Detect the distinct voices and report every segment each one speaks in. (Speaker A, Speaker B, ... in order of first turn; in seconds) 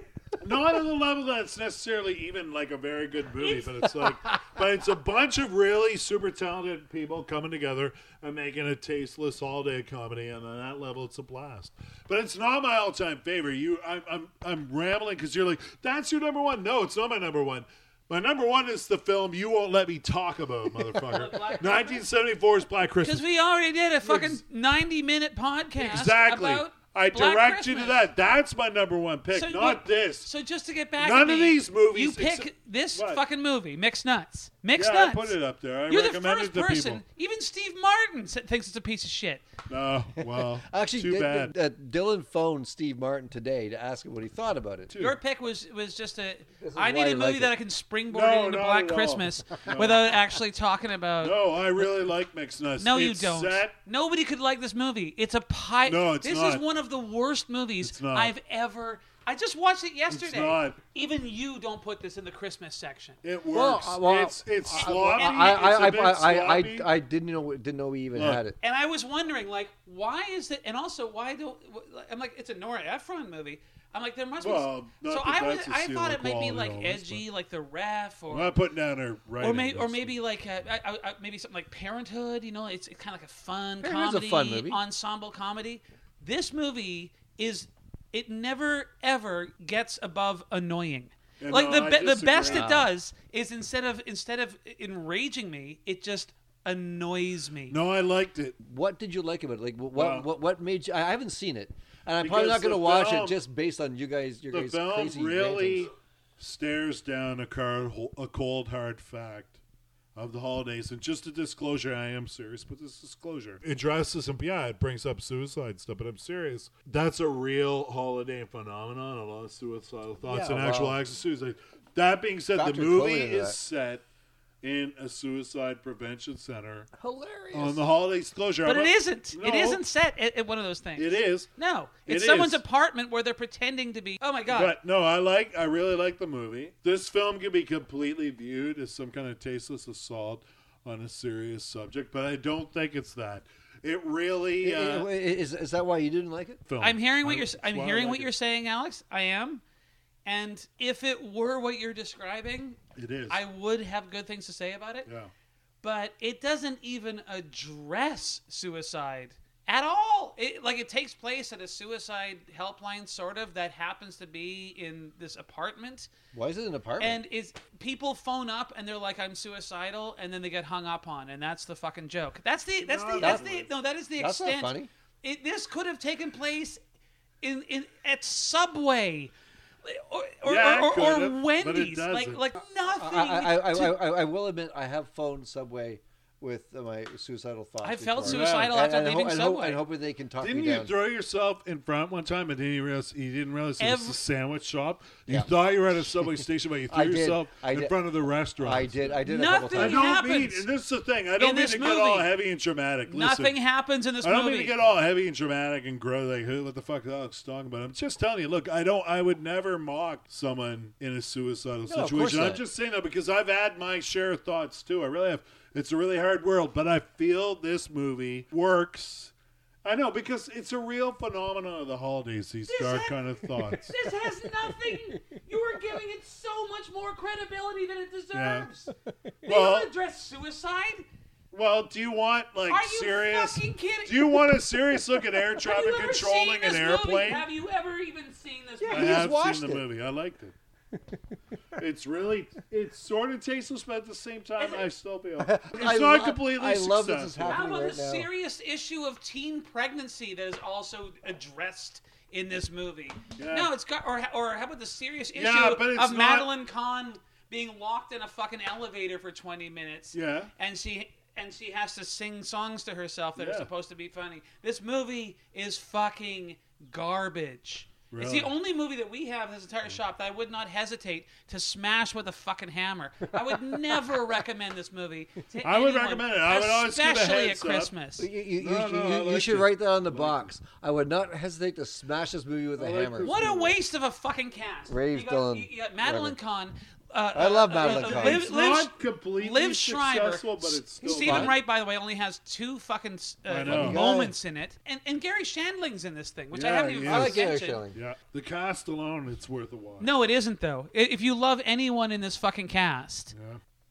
Speaker A: 0.4-23.3, 24.0-24.4, 25.8-30.3, 31.0-33.2, 34.8-37.0, 39.7-41.5, 44.9-45.2, 48.1-50.2, 51.2-53.8, 55.9-56.6, 57.8-58.3, 60.1-60.8, 63.2-66.9, 68.1-68.4, 74.4-77.2, 78.3-80.1, 91.4-92.7, 97.7-98.6, 100.0-100.3, 102.2-103.4, 104.5-109.6, 110.2-124.0, 124.6-126.9, 127.5-129.8, 131.0-131.5, 132.1-132.6, 134.5-145.1, 146.7-148.3, 153.0-153.4, 155.1-155.3, 172.8-173.7, 180.4-182.4, 188.2-188.8, 190.4-199.2, 199.8-203.6, 204.2-219.3, 219.8-223.9, 228.3-228.7, 229.4-229.9, 231.5-237.5, 238.9-240.6, 241.8-247.7, 253.4-253.7, 255.3-256.5, 260.1-260.5, 263.4-263.7, 268.1-268.5, 275.6-277.9, 278.6-280.5, 282.8-283.8, 287.8-291.6, 293.5-294.0, 296.5-300.1, 303.3-303.6
Speaker B: 21.1-22.0, 23.0-28.0, 29.3-35.4, 35.9-39.5, 45.0-51.4, 52.8-63.2, 64.8-65.6, 68.6-78.5, 79.4-97.8, 128.7-134.8, 146.8-149.6, 150.2-155.1, 155.8-166.1, 167.0-176.8, 177.4-179.3, 179.8-184.0, 187.8-189.8, 193.8-194.2, 199.3-200.7, 201.4-202.3, 203.1-204.7, 222.7-228.9, 229.4-231.1, 232.7-234.4, 235.6-239.3, 244.6-244.9, 247.5-278.3, 283.2-297.8, 300.0-303.3
Speaker C: 40.2-44.9, 46.6-47.5, 63.5-68.6, 83.8-84.8, 92.5-92.9, 98.6-105.9, 120.2-121.0, 122.5-123.6, 126.9-127.8, 144.6-146.6, 166.3-167.2, 173.2-173.5, 174.2-174.9, 182.9-190.9, 195.3-197.9, 198.6-200.1, 211.9-212.6, 224.6-225.2, 238.8-239.8, 245.4-248.3, 273.3-274.2, 278.2-283.3, 284.9-286.4, 287.3-288.5, 291.0-291.6, 293.7-294.4, 296.8-298.0